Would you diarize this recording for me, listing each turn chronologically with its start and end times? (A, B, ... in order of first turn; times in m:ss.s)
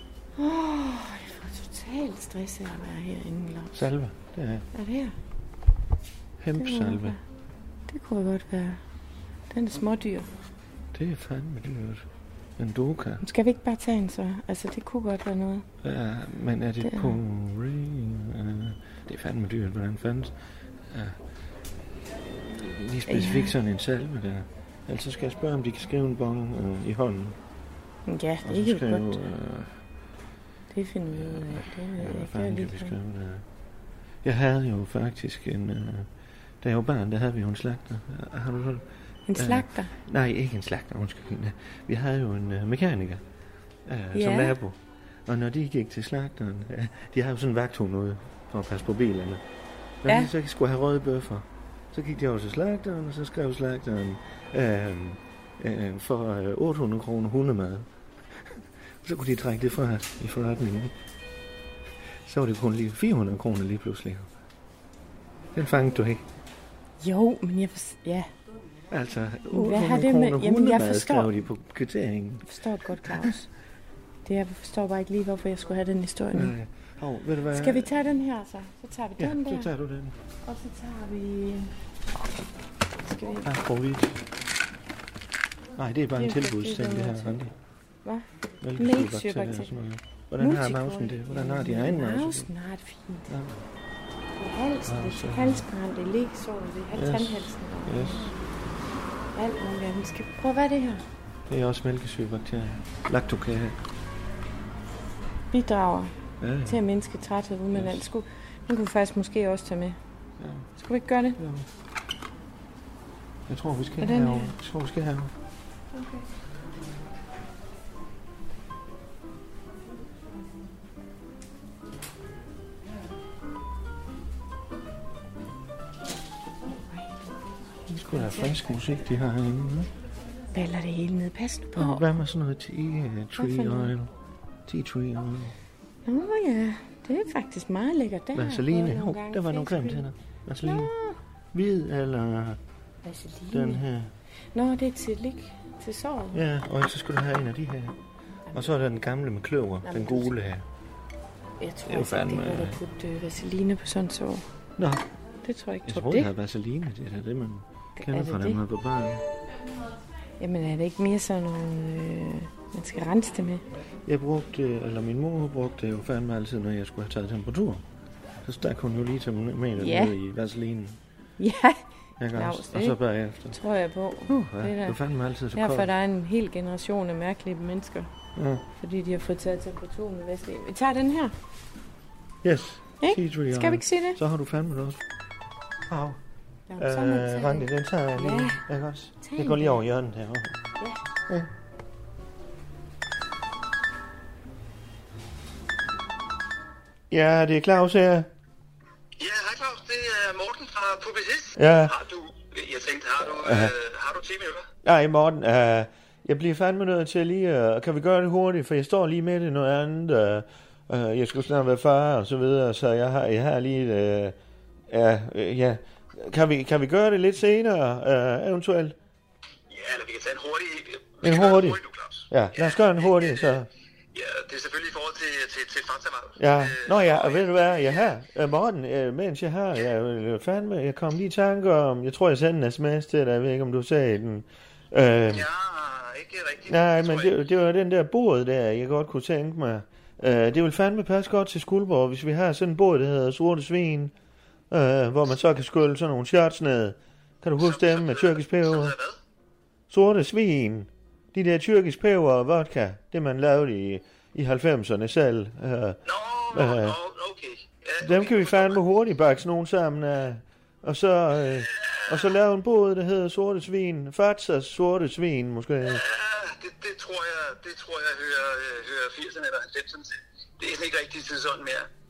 0:00.4-0:03.8 A
0:03.7-0:04.7 B
0:04.7-0:05.2 A
0:06.4-0:07.2 B
0:06.6-0:07.2 A
0:07.9-0:08.8 A
0:09.5-0:10.3 A
0:10.9-0:12.1 B
0:12.6-0:13.2 B
0:13.2-0:15.7 A
0:15.8-0:21.2 B
0:16.8-0:17.2 A
0:22.5-0:27.4 B
0:23.1-0:23.5 A
0:28.1-0:29.2 A
0:28.4-0:29.8 B
0:30.7-0:33.0 A
0:31.1-0:33.4 B
0:34.2-0:36.1 B
0:36.6-0:43.2 B
0:39.3-0:39.9 A
0:43.9-0:49.4 B
0:44.1-0:44.6 A
0:50.0-1:00.9 B
1:02.2-1:04.3 B
1:05.6-1:06.2 B
1:07.0-1:08.3 A
1:08.9-1:12.5 B
1:09.5-1:11.4 A
1:12.4-1:13.5 A
1:13.0-1:13.3 B
1:14.2-1:16.6 A
1:16.3-1:17.9 B
1:17.5-1:19.7 A
1:19.2-1:20.2 B
1:20.4-1:21.8 A
1:23.0-1:23.5 A
1:23.4-1:24.2 B
1:25.8-1:27.5 B
1:26.2-1:27.5 A
1:28.0-1:29.8 A
1:28.6-1:32.5 B
1:30.4-1:33.3 A
1:33.3-1:33.6 B
1:34.4-1:38.3 A
1:34.9-1:35.6 B
1:36.9-1:38.4 B
1:39.3-1:41.0 A
1:41.5-1:43.8 B
1:45.5-1:46.1 A
1:46.4-1:46.8 B
1:46.6-1:50.0 A
1:47.7-1:48.0 B
1:50.4-1:50.7 B
1:50.8-1:51.4 A
1:51.4-1:51.7 B
1:53.5-1:55.3 B
1:54.0-1:54.6 A
1:55.9-1:56.2 A
2:06.7-2:07.4 A
2:07.9-2:09.9 B
2:08.1-2:08.6 A
2:10.5-2:12.1 A
2:11.8-2:14.1 B
2:13.4-2:13.9 A
2:14.7-2:15.6 B
2:16.1-2:20.1 A
2:18.3-2:20.9 B
2:20.6-2:21.2 A
2:21.5-2:22.6 B
2:23.0-2:23.8 A
2:23.5-2:24.1 B
2:24.5-2:26.4 A
2:26.3-2:28.0 B
2:28.5-2:30.7 B
2:29.8-2:30.4 A
2:31.6-2:34.4 A
2:31.9-2:32.8 B
2:34.8-2:35.0 B
2:35.4-2:36.3 A
2:35.8-2:39.2 B
2:38.0-2:38.6 A
2:40.4-2:43.6 A
2:44.1-2:47.8 B
2:48.4-2:51.0 B
2:49.8-2:50.2 A
2:51.4-2:55.0 A
2:52.2-2:53.6 B
2:54.3-2:55.9 B
2:55.5-2:58.1 A
2:58.4-2:58.6 B
2:58.8-3:01.3 A
3:02.4-3:05.0 B
3:03.0-3:04.2 A
3:05.9-3:06.2 B
3:06.7-3:08.6 A
3:06.8-3:10.6 B
3:09.2-3:09.8 A
3:17.1-3:18.3 B
3:19.2-3:24.7 C
3:21.6-3:22.0 B
3:23.2-3:23.7 B
3:24.8-3:34.4 B
3:34.9-3:39.0 B
3:39.7-3:43.6 C
3:41.2-3:43.7 B
3:44.1-3:48.1 C
3:46.4-3:55.5 B
3:55.3-3:57.3 C
3:56.7-4:04.1 B
4:04.7-4:09.0 B
4:07.6-4:09.2 C
4:09.9-4:16.0 B
4:16.1-4:18.8 C
4:16.5-4:17.0 B
4:18.0-4:26.0 B
4:21.5-4:22.3 C
4:25.8-4:31.9 C